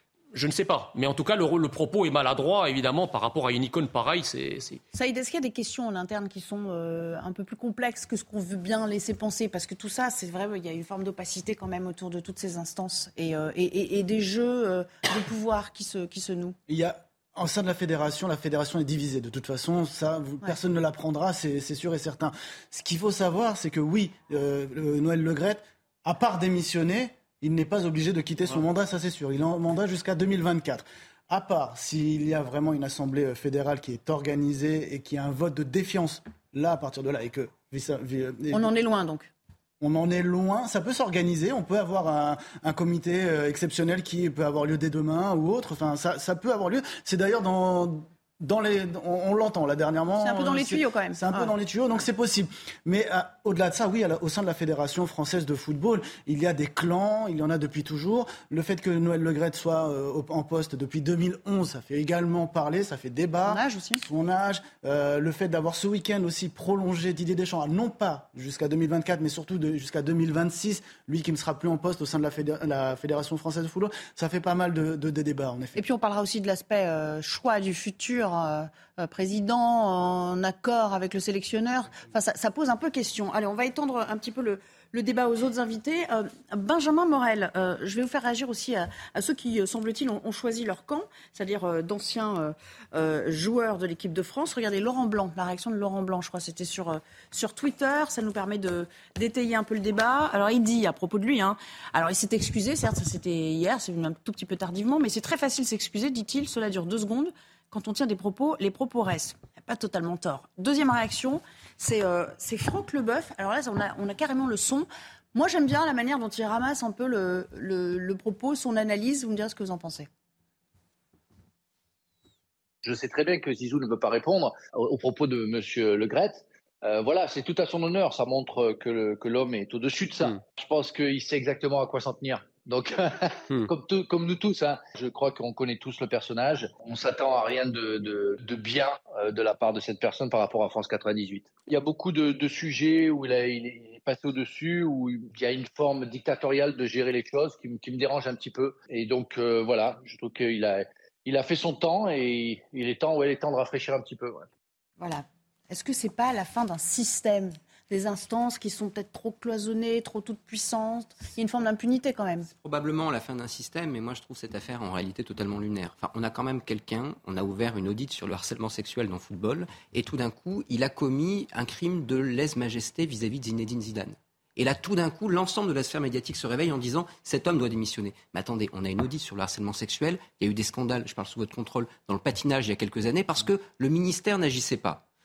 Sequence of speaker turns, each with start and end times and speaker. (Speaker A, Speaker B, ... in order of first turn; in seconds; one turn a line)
Speaker A: 0.3-4.8
Speaker B: 4.9-16.6
Speaker C: 16.7-38.7
Speaker B: 38.5-39.3
Speaker C: 39.8-75.8
Speaker B: 50.2-51.5
Speaker B: 63.5-64.0
Speaker B: 75.8-120.1
Speaker D: 122.8-154.5
Speaker B: 155.0-162.5
Speaker E: 162.5-185.0